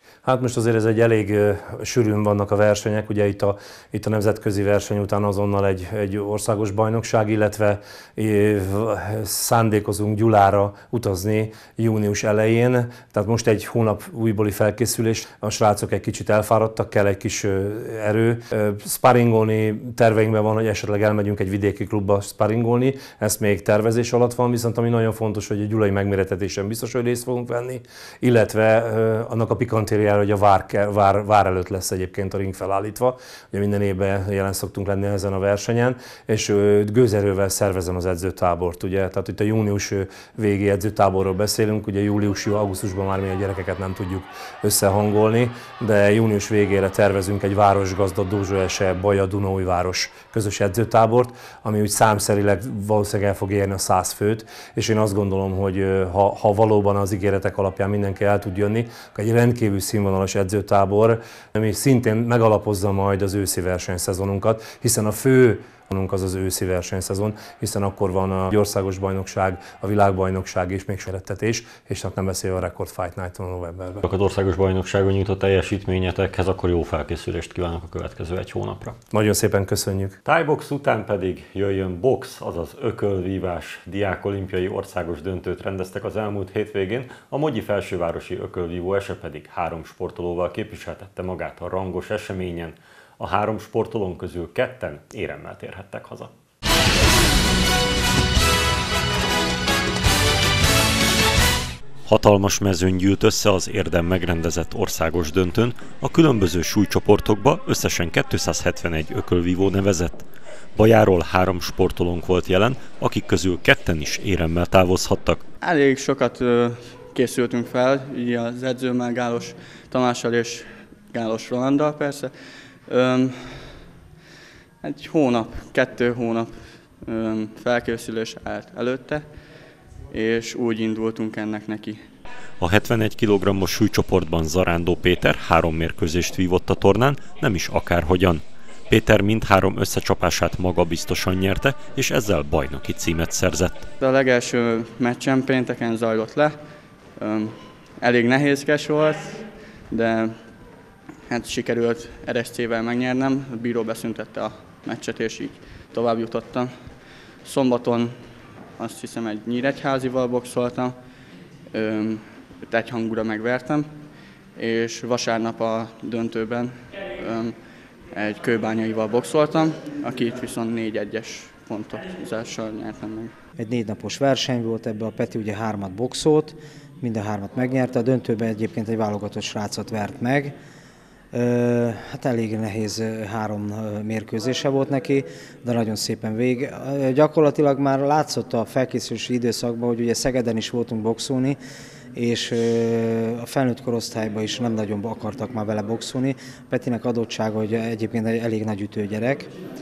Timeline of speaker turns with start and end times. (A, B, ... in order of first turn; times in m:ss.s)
0:00.2-1:14.0 A
1:14.0-1:19.0 B
1:19.1-1:20.2 A
1:20.2-1:36.3 B
1:42.1-1:50.2 B
1:50.8-1:55.4 B
1:55.6-2:03.8 C
2:04.8-2:09.4 C
2:10.1-2:12.0 C
2:12.6-2:23.9 B
2:24.0-2:41.0 C
2:41.7-2:53.3 C
2:53.6-3:00.5 D
3:01.3-3:11.6 D
3:12.1-3:19.5 D